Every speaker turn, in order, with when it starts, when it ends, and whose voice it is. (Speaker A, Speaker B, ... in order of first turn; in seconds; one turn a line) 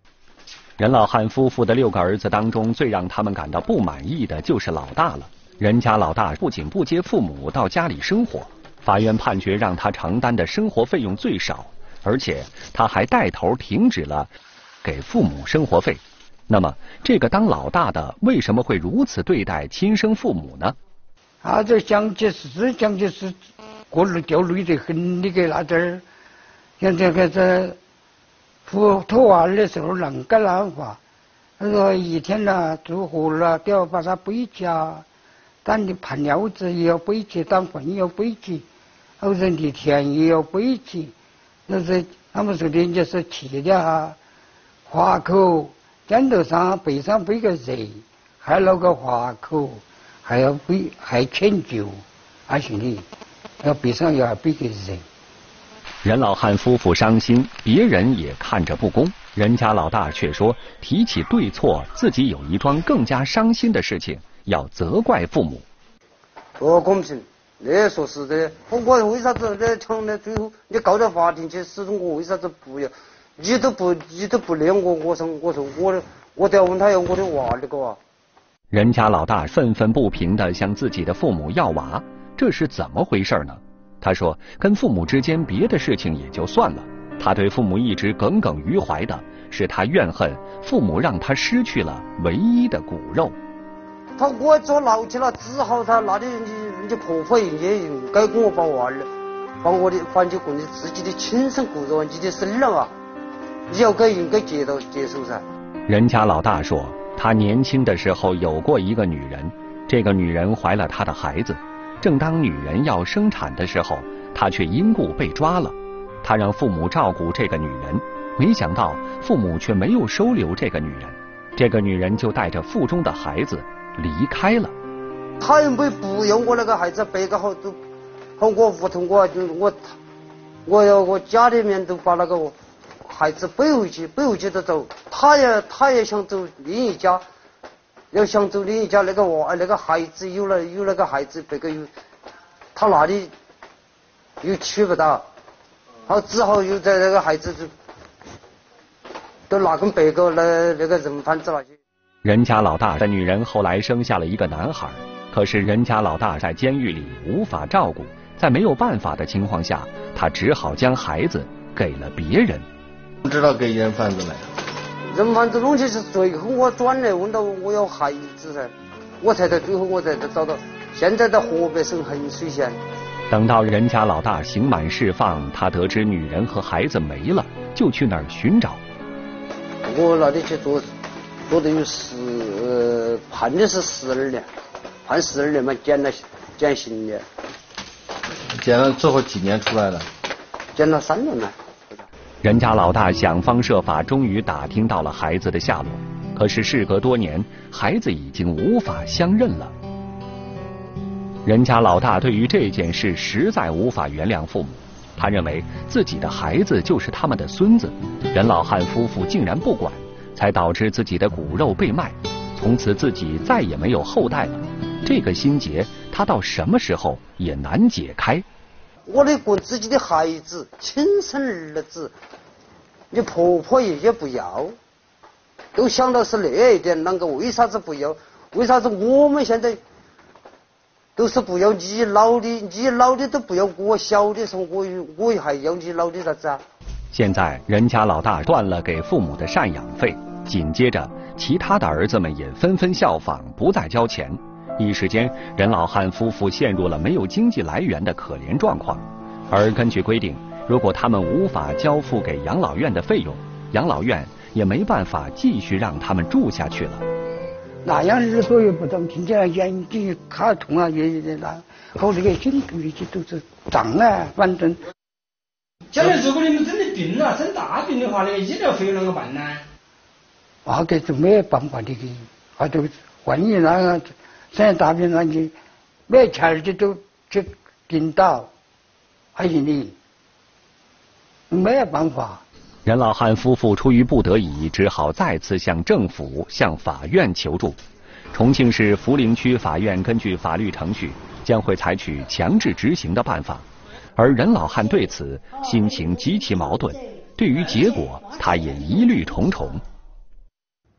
Speaker A: 0.8-14.3
Speaker A: 14.8-20.8
Speaker B: 21.4-23.3
Speaker B: 23.9-26.0
Speaker B: 26.8-27.8
Speaker B: 28.7-31.0
Speaker B: 31.6-35.0
Speaker B: 35.6-38.6
Speaker B: 39.2-41.1
Speaker B: 41.7-44.2
Speaker B: 44.9-53.0
Speaker B: 53.6-55.0
Speaker A: 56.0-65.7
Speaker C: 66.6-78.0
Speaker A: 78.7-93.3
Speaker C: 94.2-99.1
Speaker C: 99.6-102.9
Speaker C: 103.7-105.4
Speaker A: 105.9-124.8
Speaker C: 125.4-127.8
Speaker C: 128.4-129.8
Speaker C: 130.7-132.6
Speaker C: 133.1-137.2
Speaker C: 138.1-141.9
Speaker C: 142.8-143.3
Speaker C: 144.4-145.2
Speaker C: 146.1-147.7
Speaker C: 149.5-151.7
Speaker A: 152.2-162.7
Speaker D: 163.2-164.5
Speaker C: 165.1-172.8
Speaker A: 173.3-178.8
Speaker C: 179.8-180.8
Speaker C: 181.5-184.5
Speaker C: 185.1-187.2
Speaker D: 188.5-190.1
Speaker C: 190.8-192.0
Speaker A: 192.4-199.7
Speaker A: 201.4-218.4
Speaker C: 219.1-222.1
Speaker C: 223.1-224.7
Speaker C: 225.8-229.8
Speaker C: 231.2-236.6
Speaker A: 237.1-257.0
Speaker B: 257.8-264.8
Speaker E: 265.9-269.6
Speaker B: 270.6-275.5
Speaker B: 276.1-278.5
Speaker B: 279.4-279.9
Speaker B: 281.5-282.4
Speaker A: 282.9-287.8
Speaker A: 288.3-293.6
Speaker A: 294.2-299.8